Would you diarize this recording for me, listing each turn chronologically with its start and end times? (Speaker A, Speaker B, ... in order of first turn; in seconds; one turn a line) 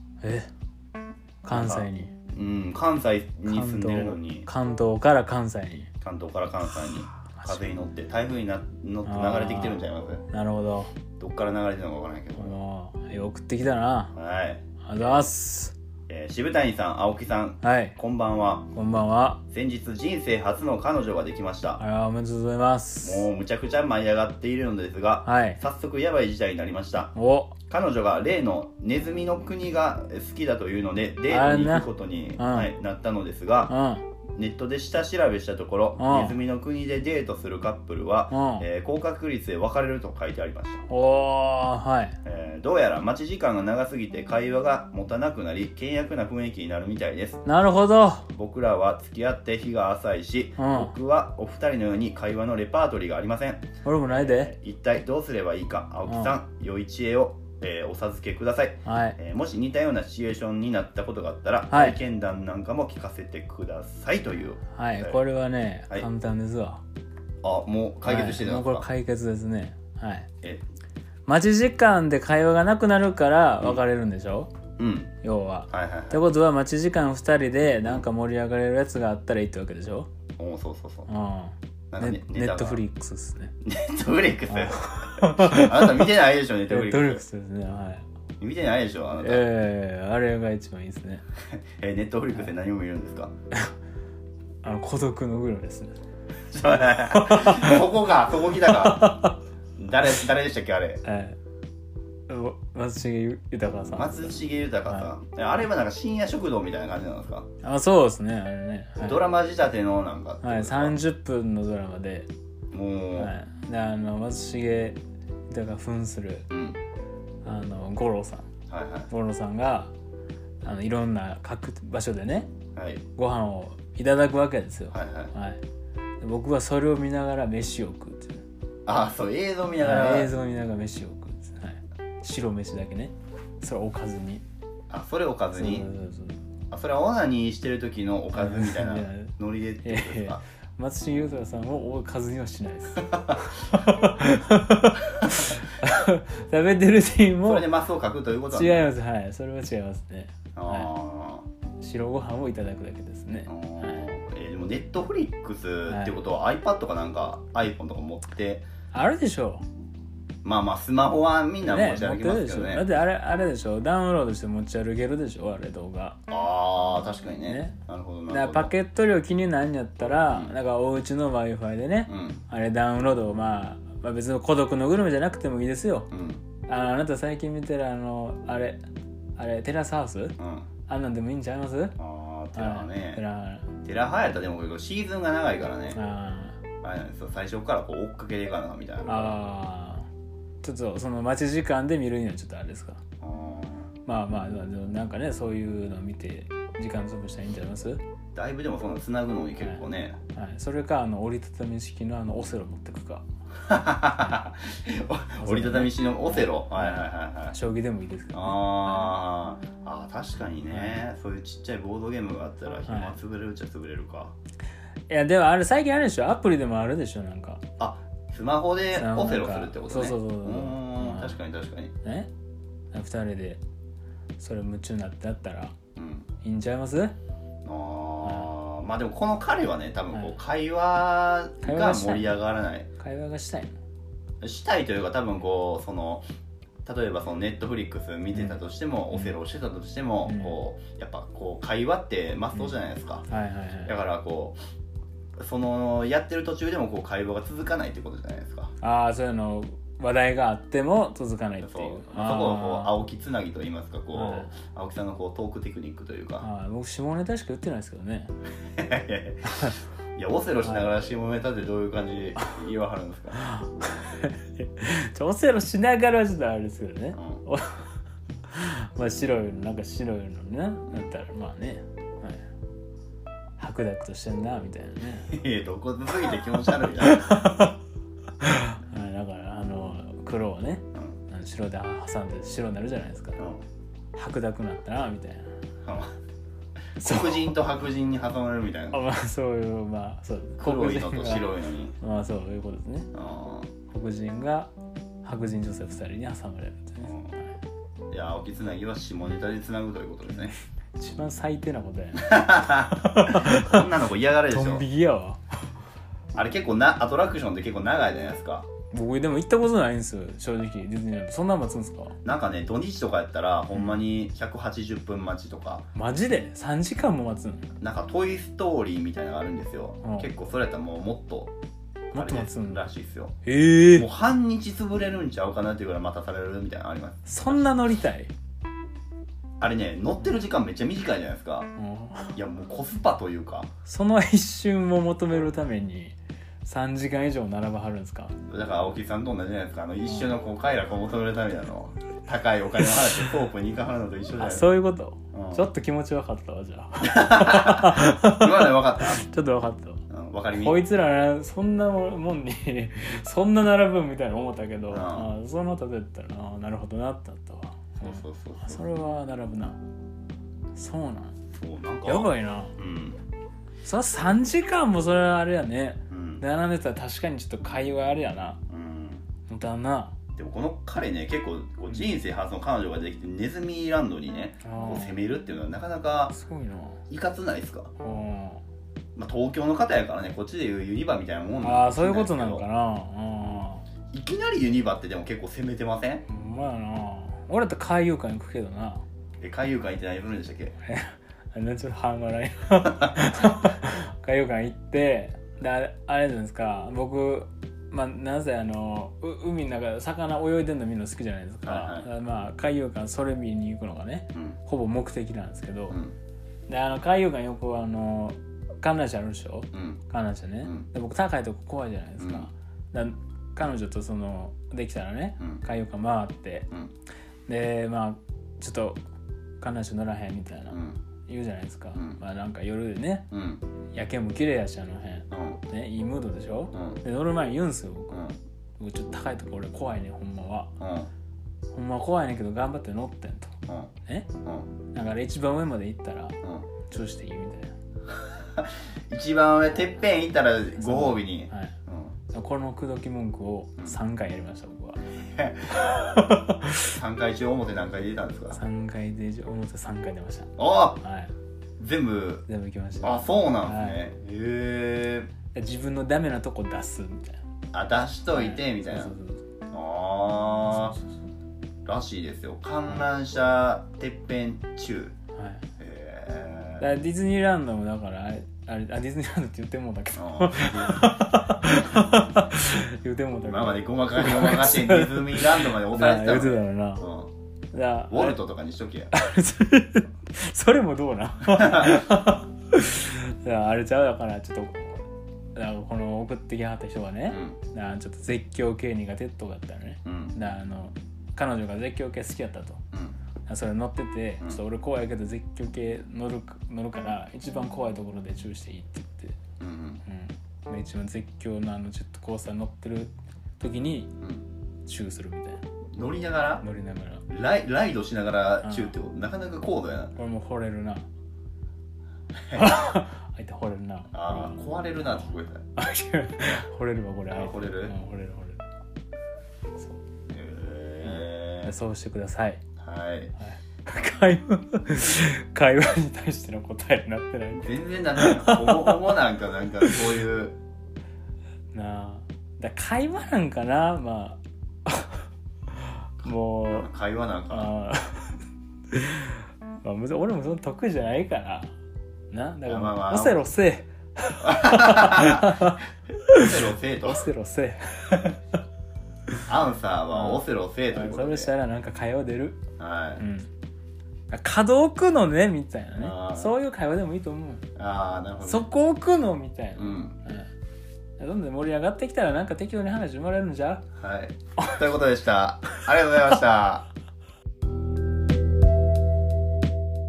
Speaker A: 0.2-0.5
Speaker A: 1.4-2.1
Speaker B: 1.5-4.5
Speaker A: 3.5-5.9
Speaker B: 6.0-10.2
Speaker A: 7.3-7.8
Speaker A: 9.1-10.9
Speaker B: 11.2-12.6
Speaker A: 12.4-14.1
Speaker B: 14.1-15.3
Speaker A: 14.8-15.7
Speaker B: 16.1-18.7
Speaker A: 17.6-18.0
Speaker A: 18.7-19.4
Speaker B: 19.5-21.8
Speaker A: 21.8-23.3
Speaker B: 23.0-27.1
Speaker A: 25.2-25.6
Speaker A: 27.1-27.6
Speaker B: 27.7-33.8
Speaker A: 31.3-32.7
Speaker A: 33.7-34.0
Speaker B: 34.4-40.9
Speaker A: 36.0-36.4
Speaker A: 38.3-38.6
Speaker A: 40.9-42.2
Speaker B: 42.2-47.4
Speaker A: 47.5-48.3
Speaker B: 48.3-65.2
Speaker A: 50.6-50.9
Speaker A: 53.8-54.5
Speaker A: 56.1-56.4
Speaker A: 58.9-59.2
Speaker A: 61.7-62.0
Speaker A: 64.7-66.8
Speaker B: 67.4-68.9
Speaker A: 68.0-70.3
Speaker A: 71.3-74.5
Speaker B: 74.8-75.1
Speaker A: 75.2-80.1
Speaker B: 75.7-76.2
Speaker B: 80.4-81.1
Speaker A: 81.1-83.5
Speaker B: 81.9-82.8
Speaker B: 83.6-87.2
Speaker A: 84.5-86.1
Speaker A: 86.7-88.0
Speaker B: 88.4-89.5
Speaker A: 89.2-91.2
Speaker B: 91.5-93.3
Speaker A: 94.6-96.0
Speaker B: 96.5-99.2
Speaker A: 97.1-97.9
Speaker A: 98.6-99.4
Speaker B: 99.8-101.0
Speaker A: 101.0-101.4
Speaker A: 102.3-105.1
Speaker B: 103.9-107.5
Speaker A: 107.6-109.3
Speaker B: 109.0-111.0
Speaker A: 110.4-112.3
Speaker B: 112.7-113.3
Speaker A: 113.2-116.5
Speaker B: 116.5-116.8
Speaker A: 117.4-118.5
Speaker B: 118.7-119.1
Speaker A: 119.1-119.9
Speaker A: 120.6-122.5
Speaker B: 122.8-123.0
Speaker A: 123.2-125.6
Speaker B: 124.9-125.3
Speaker A: 126.2-128.4
Speaker B: 128.9-130.3
Speaker A: 129.8-134.4
Speaker B: 134.9-135.9
Speaker A: 135.5-136.4
Speaker B: 136.7-140.4
Speaker A: 138.3-147.7
Speaker B: 147.4-148.9
Speaker A: 148.5-150.9
Speaker B: 150.6-151.5
Speaker A: 151.8-154.1
Speaker B: 153.5-158.7
Speaker A: 155.9-156.2
Speaker A: 158.9-159.6
Speaker B: 160.4-162.9
Speaker A: 161.6-166.2
Speaker B: 166.3-168.8
Speaker A: 167.5-167.8
Speaker A: 168.3-176.1
Speaker B: 170.2-170.6
Speaker B: 172.1-172.4
Speaker B: 176.1-176.4
Speaker A: 176.7-178.8
Speaker A: 179.4-180.3
Speaker B: 180.4-180.7
Speaker A: 180.9-182.0
Speaker B: 182.0-183.2
Speaker A: 182.6-183.7
Speaker B: 183.8-186.0
Speaker A: 185.9-186.6
Speaker B: 186.8-189.4
Speaker A: 189.1-190.1
Speaker A: 190.6-193.0
Speaker B: 193.2-193.9
Speaker A: 194.1-198.0
Speaker B: 198.3-200.2
Speaker A: 200.3-203.2
Speaker B: 203.7-207.6
Speaker A: 205.4-208.6
Speaker B: 208.3-214.3
Speaker A: 210.7-211.0
Speaker A: 212.9-213.2
Speaker A: 215.1-217.6
Speaker B: 217.8-221.9
Speaker A: 218.9-221.4
Speaker A: 222.0-222.3
Speaker A: 222.9-223.6
Speaker A: 224.4-225.7
Speaker B: 226.0-226.3
Speaker A: 226.4-227.2
Speaker B: 227.7-232.9
Speaker A: 228.2-228.5
Speaker A: 230.1-230.4
Speaker A: 231.6-232.4
Speaker A: 233.0-233.8
Speaker B: 234.4-236.3
Speaker B: 236.8-243.2
Speaker A: 238.3-238.6
Speaker A: 240.2-240.6
Speaker A: 243.3-243.9
Speaker B: 243.9-244.6
Speaker B: 245.4-248.7
Speaker A: 248.8-253.0
Speaker B: 251.6-256.5
Speaker A: 254.1-254.5
Speaker A: 256.4-258.3
Speaker B: 258.8-263.4
Speaker A: 263.4-267.8
Speaker B: 267.2-267.4
Speaker A: 268.5-272.4
Speaker A: 273.6-275.3
Speaker B: 275.3-277.4
Speaker A: 277.0-277.8
Speaker A: 278.4-283.4
Speaker B: 283.4-283.6
Speaker A: 284.1-285.5
Speaker B: 285.8-286.1
Speaker B: 287.0-289.0
Speaker A: 287.0-287.5
Speaker A: 288.9-291.5
Speaker B: 290.6-292.0
Speaker A: 292.0-293.1
Speaker B: 293.1-293.7
Speaker A: 293.9-294.7
Speaker A: 295.2-297.1
Speaker B: 297.0-297.4
Speaker B: 298.1-300.5
Speaker A: 300.3-303.8
Speaker B: 302.2-304.9
Speaker A: 304.5-305.4
Speaker B: 306.3-308.7
Speaker A: 308.9-312.2
Speaker B: 312.2-315.9
Speaker A: 315.9-317.7
Speaker B: 317.8-321.5
Speaker A: 320.0-320.3
Speaker A: 322.1-322.9
Speaker B: 322.1-323.4
Speaker A: 323.4-324.1
Speaker B: 323.9-327.7
Speaker A: 327.3-328.3
Speaker B: 329.6-331.7
Speaker A: 331.8-332.3
Speaker B: 332.4-333.7
Speaker A: 333.9-338.4
Speaker B: 338.5-344.7
Speaker A: 344.4-359.8
Speaker B: 345.3-345.7
Speaker B: 347.0-349.2
Speaker B: 350.1-350.8
Speaker B: 354.9-355.3
Speaker B: 358.0-358.9
Speaker A: 360.7-361.4
Speaker B: 361.5-363.2
Speaker A: 362.1-362.8
Speaker A: 363.8-368.6
Speaker B: 366.1-366.4
Speaker B: 368.7-369.3
Speaker A: 369.5-370.1
Speaker B: 370.4-376.4
Speaker A: 374.6-375.2
Speaker A: 376.3-377.0
Speaker B: 377.1-377.9
Speaker A: 378.0-378.6
Speaker B: 379.2-382.7
Speaker A: 381.6-383.8
Speaker B: 384.1-386.3
Speaker A: 386.3-389.0
Speaker B: 389.4-390.8
Speaker A: 390.8-406.0
Speaker B: 401.6-402.1
Speaker B: 405.9-406.1
Speaker A: 406.7-416.7
Speaker B: 409.7-410.0
Speaker B: 410.6-410.9
Speaker B: 412.2-412.5
Speaker B: 415.4-415.6
Speaker A: 417.5-419.0
Speaker A: 419.6-423.3
Speaker B: 420.7-421.0
Speaker B: 421.9-422.2
Speaker B: 423.3-423.6
Speaker A: 423.9-428.2
Speaker B: 425.3-425.6
Speaker B: 426.7-427.0
Speaker A: 428.8-430.7
Speaker B: 430.8-431.1
Speaker A: 431.7-433.5
Speaker B: 433.7-433.9
Speaker B: 434.4-434.7
Speaker A: 434.9-437.7
Speaker B: 436.4-436.7
Speaker B: 438.6-442.1
Speaker A: 440.8-441.8
Speaker A: 442.3-445.0
Speaker B: 445.2-445.9
Speaker A: 445.8-446.9
Speaker B: 446.9-448.6
Speaker A: 448.5-451.3
Speaker B: 450.6-451.0
Speaker B: 451.8-452.5
Speaker A: 452.5-454.1
Speaker B: 453.0-455.3
Speaker A: 455.5-457.4
Speaker B: 457.7-459.1
Speaker A: 458.3-459.4
Speaker B: 459.7-461.0
Speaker A: 460.7-461.1
Speaker B: 461.9-465.1
Speaker A: 465.4-465.6
Speaker B: 465.8-466.9
Speaker A: 466.8-477.1
Speaker B: 470.1-471.1
Speaker B: 473.5-477.3
Speaker A: 477.7-478.4
Speaker B: 478.1-479.1
Speaker A: 479.1-485.0
Speaker A: 485.6-492.8
Speaker B: 487.3-487.6
Speaker B: 490.1-490.4
Speaker B: 492.9-493.2
Speaker A: 493.5-499.4
Speaker B: 499.6-500.0
Speaker A: 500.1-504.1
Speaker B: 504.2-504.5
Speaker A: 504.9-505.6
Speaker B: 505.9-506.6
Speaker A: 506.6-507.2
Speaker B: 507.3-510.1
Speaker A: 508.6-508.9
Speaker A: 510.1-511.1
Speaker B: 512.5-512.8
Speaker A: 512.5-514.7
Speaker B: 514.1-515.7
Speaker A: 515.8-518.6
Speaker B: 517.3-518.0
Speaker A: 519.8-520.0
Speaker B: 520.3-521.8
Speaker A: 521.0-522.6
Speaker B: 522.8-523.3
Speaker A: 523.4-529.2
Speaker B: 527.5-530.6
Speaker A: 531.7-535.2
Speaker A: 536.0-536.9
Speaker B: 536.7-537.7
Speaker A: 537.5-538.4
Speaker A: 538.9-541.7
Speaker A: 542.3-546.5
Speaker B: 542.7-543.4
Speaker B: 544.4-545.5
Speaker B: 546.4-547.3
Speaker A: 547.0-548.4
Speaker B: 549.5-551.5
Speaker A: 550.1-552.6
Speaker B: 552.8-553.2
Speaker A: 553.2-553.5
Speaker A: 554.3-557.6
Speaker B: 556.0-556.6
Speaker B: 557.8-558.7
Speaker A: 558.5-560.5
Speaker B: 559.8-560.2
Speaker A: 561.2-563.8
Speaker B: 564.0-566.9